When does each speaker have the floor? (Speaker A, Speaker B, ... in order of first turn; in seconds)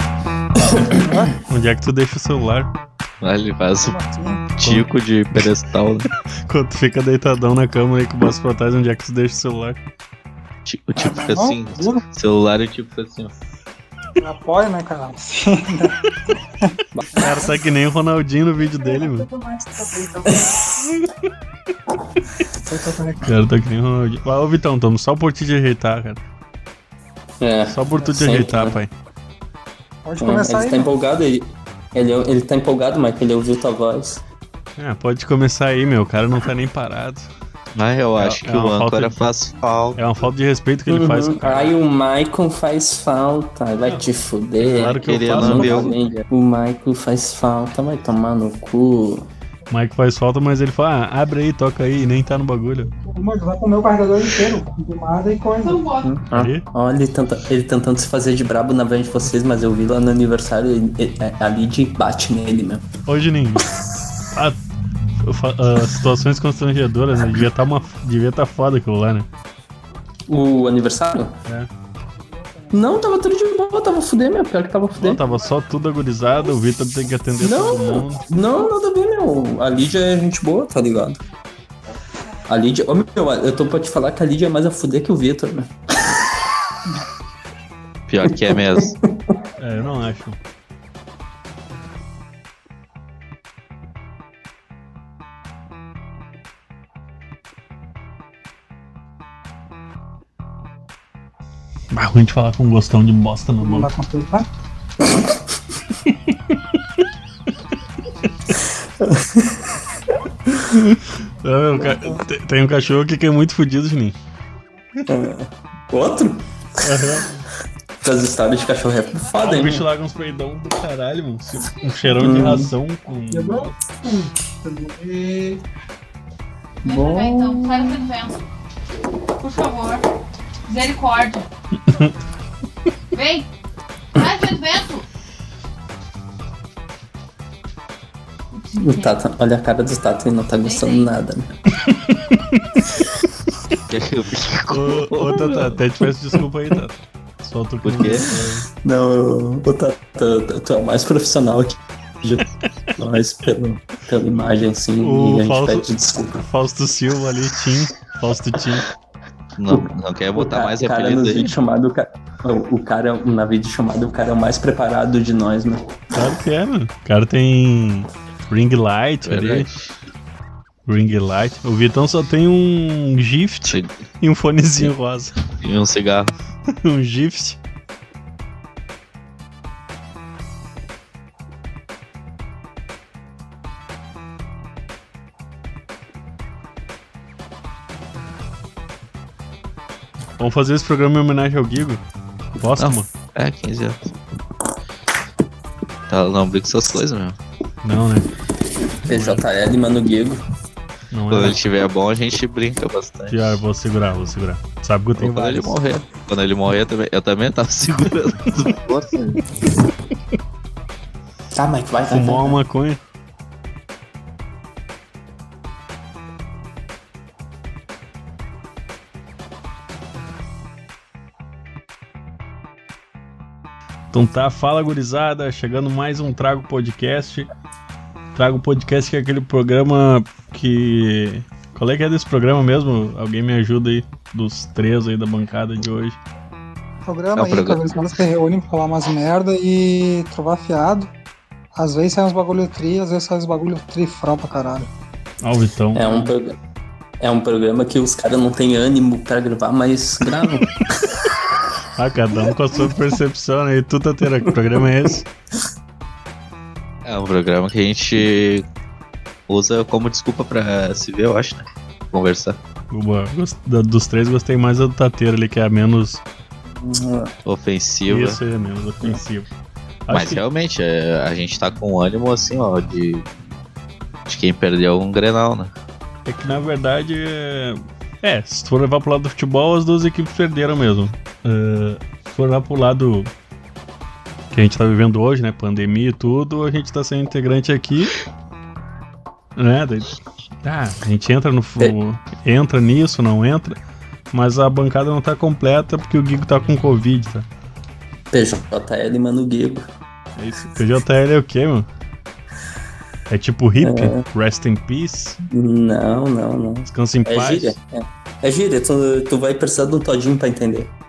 Speaker A: 0.6-1.2, 16.9-17.5, 20.3-20.8, 27.4-28.8, 30.2-34.2, 40.9-49.3, 56.0-62.9, 70.3-71.4, 72.7-75.2, 77.4-81.2, 82.5-86.2, 88.3-89.4, 108.8-109.8, 115.1-117.0, 118.0-119.8, 122.2-122.7, 126.9-127.9, 138.8-141.5, 148.8-156.4, 159.7-165.8, 199.1-200.4, 211.5-212.6, 245.9-246.6, 247.2-251.1, 266.8-267.3, 298.3-299.9, 303.8-304.2, 305.5-310.9
Speaker B: 1.0-1.4, 3.8-4.4, 11.0-12.0, 14.2-16.0, 16.6-17.5, 19.0-20.4, 22.5-23.3, 30.1-30.9, 53.0-55.9, 72.3-72.8, 103.6-104.5, 123.3-123.7, 124.6-125.6, 237.1-241.1, 241.8-244.9
Speaker C: 1.5-2.7, 4.6-5.5, 6.5-9.8, 17.2-19.3, 23.2-26.2, 27.7-28.9, 34.8-37.3, 38.2-39.2, 40.0-41.7, 44.6-46.0, 49.7-52.9, 56.3-56.6, 63.1-63.7, 64.3-64.6, 65.2-69.3, 75.0-78.2, 89.6-90.4, 101.9-103.9, 106.1-106.8, 110.5-114.2, 116.8-117.5, 119.4-123.7, 131.8-132.1, 141.8-142.8, 144.7-148.7, 155.0-158.9, 166.1-169.7, 170.9-175.4, 176.7-177.6, 190.4-192.0, 192.6-193.1, 197.8-198.3, 199.1-199.4, 201.1-201.6, 203.3-205.8, 212.1-213.0, 224.1-227.5, 228.3-236.2, 245.4-246.3, 252.0-255.3, 262.9-266.2, 268.1-269.5, 270.1-270.4, 276.3-283.3, 284.5-288.2, 289.6-293.8, 294.3-297.5, 300.4-301.9, 303.3-305.4, 306.9-307.8
Speaker D: 3.2-4.0, 4.5-6.1, 10.7-13.3, 37.8-40.0, 44.8-46.0, 88.1-89.0, 143.9-145.8, 147.8-148.3, 159.6-161.5, 169.2-169.9, 173.7-173.9, 175.6-176.3, 192.8-194.1, 196.1-197.4, 201.3-203.6, 205.2-209.4, 237.3-238.0, 257.1-258.7, 259.5-262.6, 267.4-268.4, 270.1-273.3, 274.3-275.7
Speaker E: 55.6-56.1, 126.8-128.4, 129.4-130.1, 130.7-131.5, 133.1-133.5, 134.1-135.1, 138.5-139.2, 140.6-141.1